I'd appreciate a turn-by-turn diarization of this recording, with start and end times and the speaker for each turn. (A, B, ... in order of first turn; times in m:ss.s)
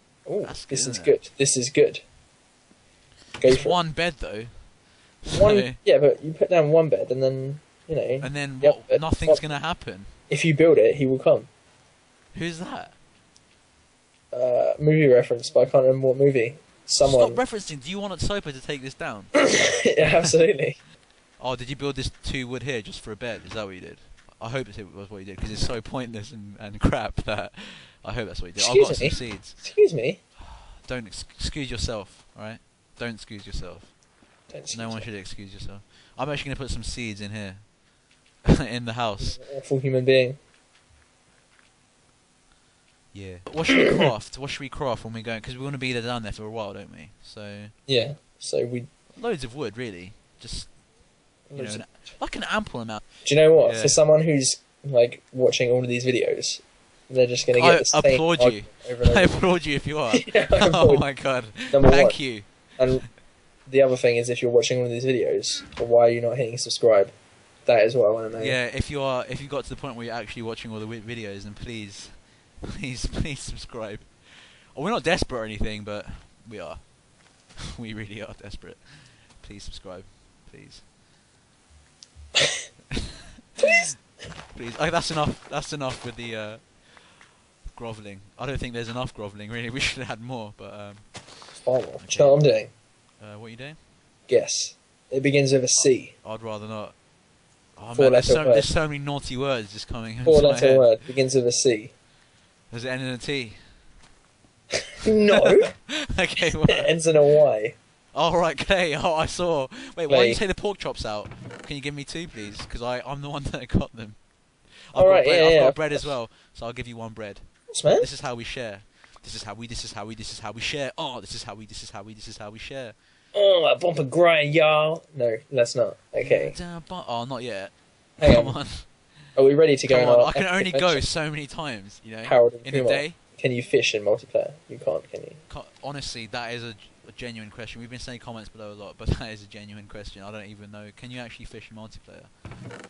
0:00.2-0:02.0 A
0:00.4-0:01.2 B
0:03.4-0:03.8 A
0:03.4-0:05.8 B
0:05.3-0:09.5 A
0:08.2-0:10.1 B
0:10.3-0:11.5 A
0:12.3-0:13.0 B
0:14.3-0:17.4 A
0:17.0-0:20.3 B
0:19.4-0:20.8 A
0:21.4-0:29.6 B
0:28.6-0:30.2 A
0:30.4-0:34.0 B
0:34.5-0:35.1 A
0:34.7-0:37.8 B
0:38.4-0:39.4 B
0:39.2-0:40.4 A
0:43.1-0:47.7 B
0:47.8-0:48.9 A
0:49.1-0:50.8 B
0:51.5-0:52.2 A
0:51.5-0:54.0 B
0:53.2-0:59.5 A
0:57.5-1:02.9 B
1:00.1-1:08.6 A
1:08.3-1:20.8 B
1:24.5-1:33.8 B
1:31.5-1:32.7 A
1:34.3-1:36.1 A
1:35.7-1:37.0 B
1:37.8-1:41.0 B
1:37.9-1:38.7 A
1:40.2-1:41.9 A
1:42.7-1:43.7 B
1:45.0-1:45.8 A
1:45.4-1:46.9 B
1:46.6-1:47.8 A
1:48.1-2:02.9 B
1:50.1-1:50.4 A
1:54.9-1:56.2 A
1:57.7-1:58.1 A
2:03.3-2:06.6 A
2:06.2-2:09.1 B
2:08.2-2:11.0 A
2:09.8-2:13.2 B
2:12.2-2:15.4 A
2:15.5-2:22.4 B